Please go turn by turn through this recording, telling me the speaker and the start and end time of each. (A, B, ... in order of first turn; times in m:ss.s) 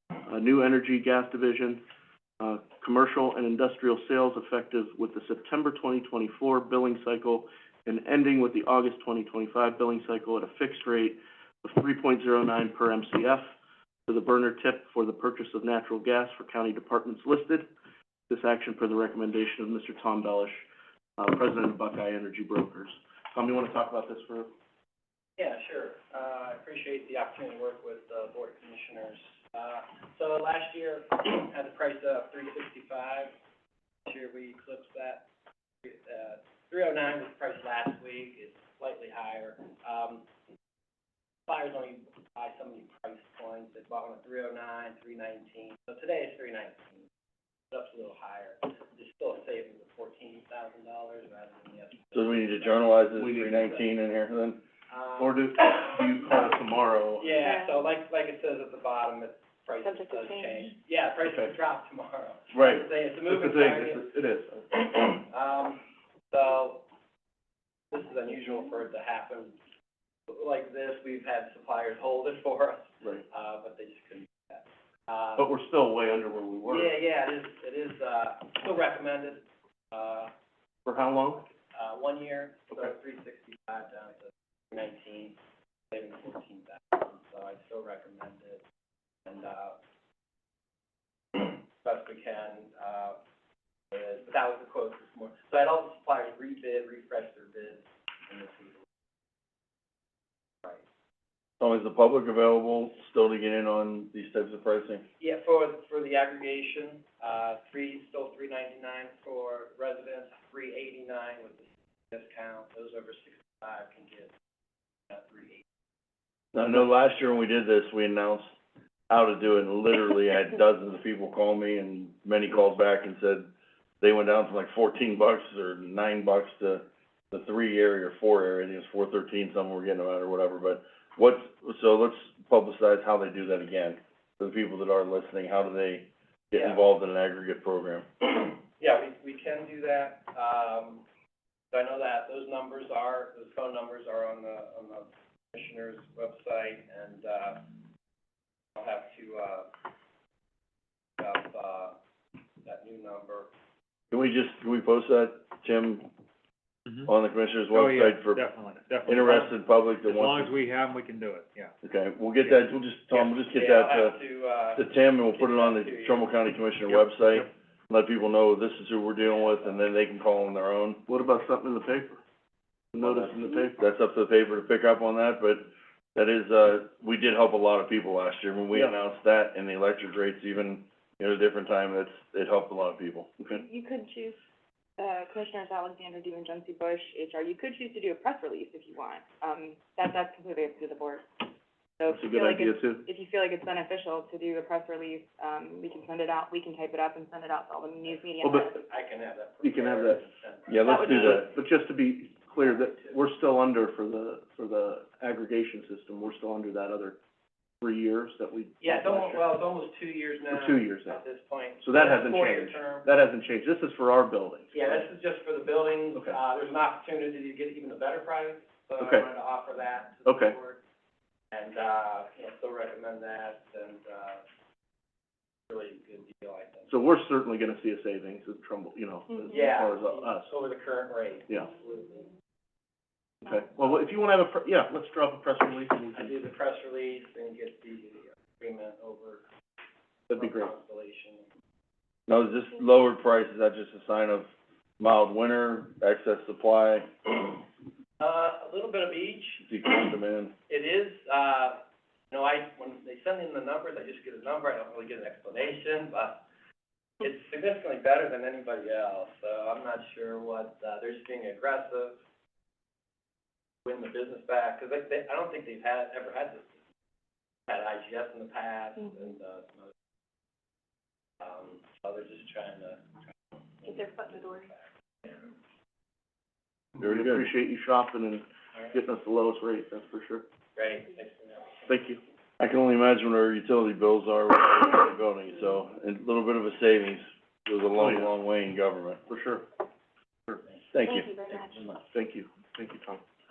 0:00.2-0:01.8 A
0:02.4-0:13.5 A
0:14.1-0:17.7 A
0:18.3-0:20.6 A
0:21.2-0:24.5 A
0:25.4-0:33.3 B
0:34.0-0:35.2 B
0:35.8-0:40.2 B
0:41.5-0:47.0 B
0:47.7-0:53.9 B
0:52.1-0:54.6 C
0:53.2-0:53.6 A
0:54.9-0:55.4 B
0:55.2-0:57.4 A
0:57.2-1:04.1 B
0:59.8-1:00.7 D
1:02.5-1:04.8 A
1:04.9-1:06.8 B
1:07.9-1:09.6 B
1:10.3-1:15.5 B
1:15.4-1:16.9 A
1:16.7-1:20.3 B
1:20.8-1:21.5 A
1:21.7-1:25.4 B
1:25.9-1:28.6 B
1:29.2-1:29.8 B
1:31.3-1:33.2 B
1:33.9-1:38.8 B
1:41.6-1:45.0 C
1:45.2-1:54.3 B
1:55.1-1:55.6 B
1:56.5-1:58.5 C
1:59.1-2:03.5 C
2:04.0-2:18.0 C
2:16.5-2:16.8 B
2:18.4-2:21.0 B
2:21.7-2:27.8 B
2:28.8-2:29.7 B
2:31.2-2:32.0 B
2:32.6-2:33.5 B
2:34.1-2:36.1 C
2:36.8-2:37.1 E
2:37.1-2:38.4 C
2:37.7-2:41.7 E
2:39.1-2:40.5 C
2:41.8-2:44.2 C
2:43.1-2:46.3 B
2:44.8-2:51.0 C
2:49.3-2:49.8 B
2:51.1-2:52.2 A
2:52.9-2:53.7 A
2:53.0-3:03.4 C
3:03.6-3:04.4 D
3:05.0-3:18.7 D
3:12.1-3:13.0 A
3:18.4-3:18.8 A
3:18.8-3:21.5 B
3:19.6-3:20.2 A
3:20.7-3:21.5 C
3:20.9-3:21.3 D
3:21.1-3:27.2 A
3:22.6-3:23.2 B
3:27.8-3:29.4 A
3:28.8-3:33.1 B
3:30.5-3:31.2 A
3:31.8-3:35.0 A
3:34.7-3:40.8 B
3:39.0-3:39.3 A
3:40.2-3:40.6 A
3:41.5-3:44.4 B
3:45.7-3:46.9 B
3:46.9-3:50.5 A
3:49.4-3:52.3 B
3:53.4-3:56.4 A
3:56.1-3:59.4 B
4:00.3-4:00.7 A
4:00.3-4:01.5 B
4:02.3-4:04.5 C
4:05.0-4:07.3 C
4:08.2-4:09.7 B
4:09.6-4:10.5 C
4:10.7-4:16.4 B
4:17.2-4:22.2 B
4:23.8-4:26.7 B
4:27.7-4:29.9 B
4:31.4-4:33.1 B
4:33.8-4:35.5 B
4:37.0-4:37.5 C
4:37.0-4:40.4 A
4:40.8-4:41.9 B
4:41.9-4:42.2 A
4:42.6-4:49.2 C
4:48.0-4:48.3 A
4:49.3-4:49.6 A
4:50.9-4:51.3 C
4:51.0-4:51.8 D
4:52.1-4:53.2 A